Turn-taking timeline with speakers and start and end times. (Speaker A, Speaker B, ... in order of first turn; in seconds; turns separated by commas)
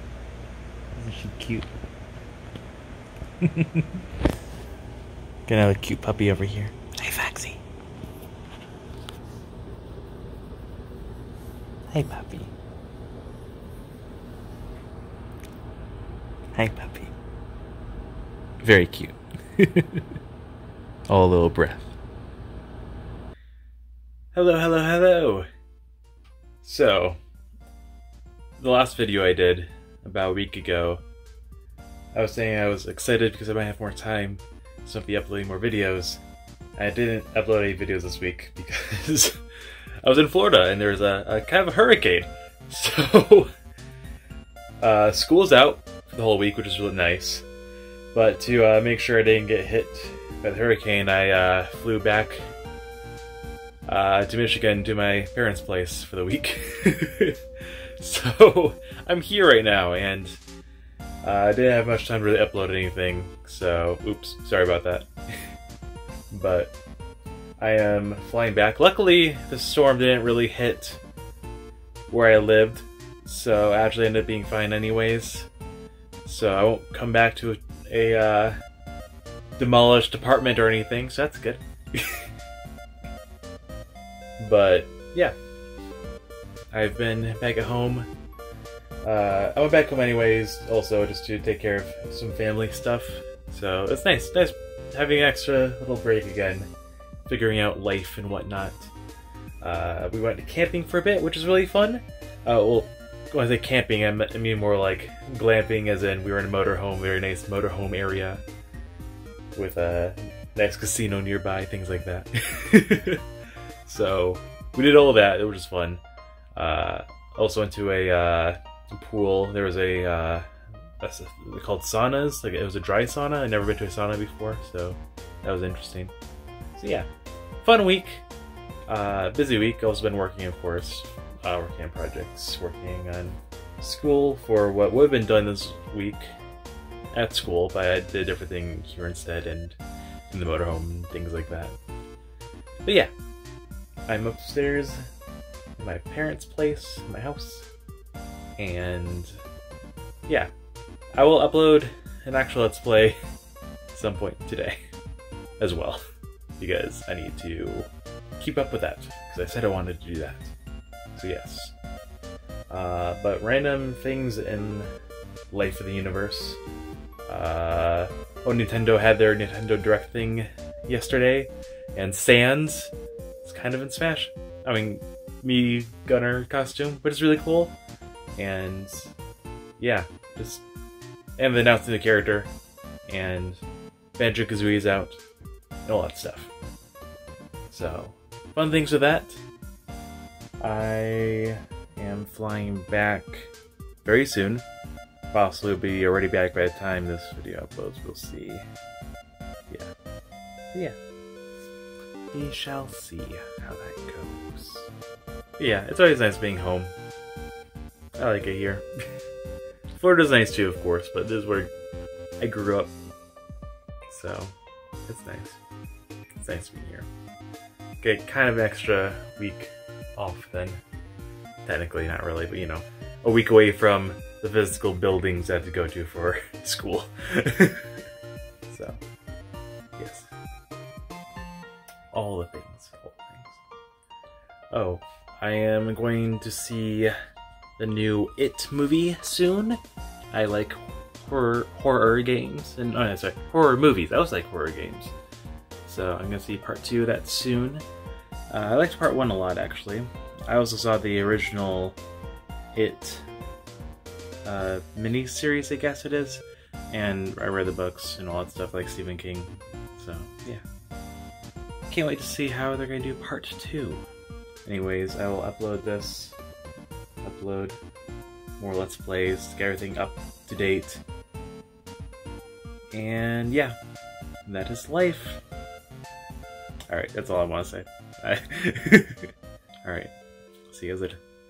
Speaker A: 0.9-1.7, Speaker A: 3.4-3.9, Speaker A: 5.5-7.6, Speaker A: 11.9-12.5, Speaker A: 16.5-17.1, Speaker A: 18.6-20.0, Speaker A: 21.1-21.9, Speaker A: 24.3-25.5, Speaker A: 26.6-27.2, Speaker A: 28.6-31.0, Speaker A: 32.1-36.2, Speaker A: 36.8-39.4, Speaker A: 40.0-43.5, Speaker A: 44.8-47.5, Speaker A: 48.1-52.5, Speaker A: 53.9-57.4, Speaker A: 58.0-60.4, Speaker A: 61.2-65.1, Speaker A: 66.3-66.7, Speaker A: 67.6-71.0, Speaker A: 72.1-75.5, Speaker A: 76.2-78.6, Speaker A: 79.6-82.2, Speaker A: 84.4-85.3, Speaker A: 86.7-88.1, Speaker A: 89.0-96.7, Speaker A: 97.3-98.9, Speaker A: 99.6-108.4, Speaker A: 109.6-113.2, Speaker A: 113.8-116.0, Speaker A: 116.5-120.5, Speaker A: 121.0-126.1, Speaker A: 126.8-127.1, Speaker A: 127.6-128.2, Speaker A: 128.9-136.4, Speaker A: 137.1-139.8, Speaker A: 140.3-141.8, Speaker A: 142.8-143.1, Speaker A: 144.1-145.0, Speaker A: 145.8-147.7, Speaker A: 148.6-149.4, Speaker A: 150.3-150.5, Speaker A: 151.2-153.2, Speaker A: 153.9-154.8, Speaker A: 155.6-156.0, Speaker A: 156.6-160.5, Speaker A: 161.2-161.8, Speaker A: 162.7-164.9, Speaker A: 165.5-166.6, Speaker A: 167.3-172.9, Speaker A: 173.4-177.8, Speaker A: 178.4-179.1, Speaker A: 179.8-180.6, Speaker A: 181.4-182.5, Speaker A: 183.1-183.6, Speaker A: 184.2-185.2, Speaker A: 185.9-186.5, Speaker A: 187.7-189.4, Speaker A: 190.6-193.5, Speaker A: 194.1-194.7, Speaker A: 195.3-198.6, Speaker A: 202.3-204.9, Speaker A: 205.6-206.9, Speaker A: 208.2-208.8, Speaker A: 209.9-211.7, Speaker A: 212.4-212.9, Speaker A: 214.1-214.5, Speaker A: 215.1-215.6, Speaker A: 216.3-217.1, Speaker A: 218.0-220.8, Speaker A: 221.7-227.8, Speaker A: 228.7-229.0, Speaker A: 230.0-230.3, Speaker A: 232.1-233.6, Speaker A: 234.7-237.1, Speaker A: 237.8-239.8, Speaker A: 240.3-245.1, Speaker A: 245.8-247.8, Speaker A: 248.5-252.0, Speaker A: 252.8-253.3, Speaker A: 254.4-260.6, Speaker A: 261.9-264.1, Speaker A: 264.7-266.4, Speaker A: 267.2-267.8, Speaker A: 268.6-271.0, Speaker A: 272.9-273.8, Speaker A: 274.5-275.4, Speaker A: 276.9-279.3, Speaker A: 279.8-280.1, Speaker A: 280.7-281.2